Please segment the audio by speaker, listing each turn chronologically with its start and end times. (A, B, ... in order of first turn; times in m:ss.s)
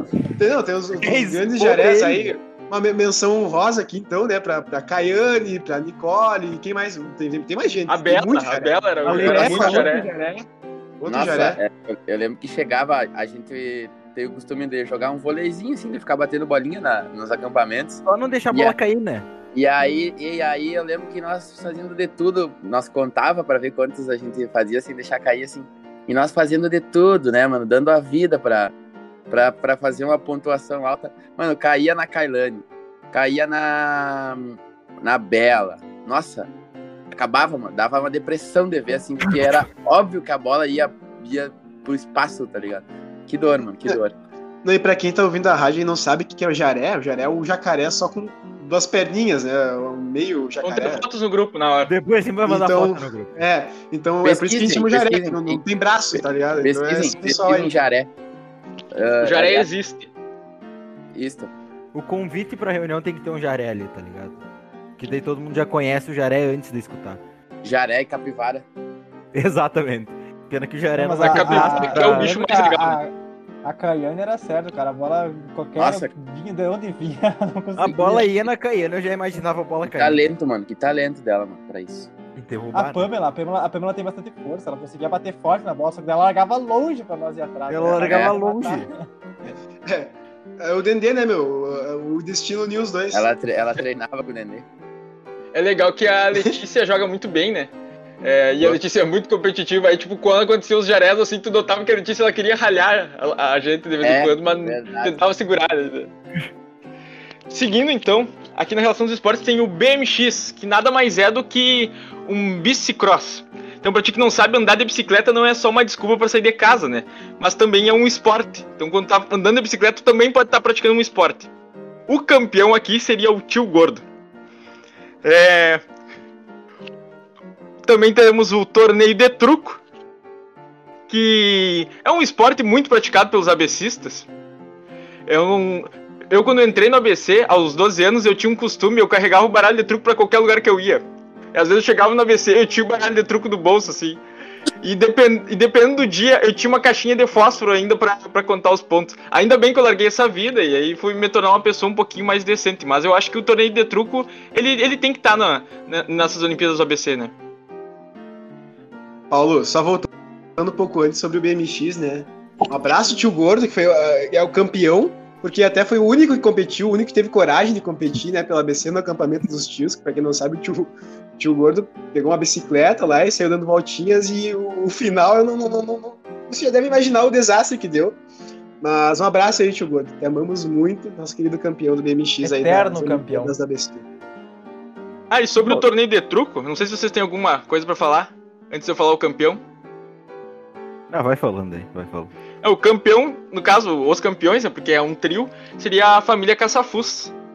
0:00.4-0:10.4 A
0:01.0-0:02.4 B
0:07.9-0:10.1 C
0:09.1-0:09.9 B
0:11.0-0:11.6 A
0:11.1-0:18.8 D
0:18.0-0:19.3 B
0:19.5-0:28.7 D
0:29.3-0:36.5 D
0:37.1-0:44.2 D
0:44.6-0:51.0 A
0:50.6-0:51.9 C
0:51.9-0:53.3 B
0:52.4-0:57.8 A
0:54.2-0:55.6 D
0:56.2-0:58.1 D
0:58.9-0:59.7 D
0:59.2-1:00.1 C
1:01.1-1:01.5 D
1:01.9-1:04.4 B
1:05.0-1:07.2 B
1:07.6-1:08.7 D
1:09.3-1:12.3 B
1:10.9-1:13.1 E
1:11.2-1:13.0 C
1:13.6-1:18.3 E
1:15.8-1:16.1 D
1:17.8-1:20.3 B
1:19.9-1:22.1 D
1:22.4-1:23.1 B
1:22.7-1:29.0 E
1:27.7-1:28.9 B
1:28.0-1:28.3 D
1:29.8-1:33.3 A
1:33.1-1:34.6 D
1:35.5-1:37.7 C
1:38.2-1:46.1 C
1:44.0-1:45.2 D
1:47.5-2:01.5 C
2:02.1-2:04.0 C
2:05.2-2:05.8 C
2:07.8-2:09.8 C
2:11.1-2:14.3 C
2:15.3-2:21.0 C
2:21.5-2:24.2 C
2:24.8-2:37.3 C
2:39.3-2:58.2 A
2:58.8-3:04.1 A
3:02.4-3:03.6 E
3:05.3-3:09.6 C
3:11.1-3:12.3 B
3:12.6-3:17.3 C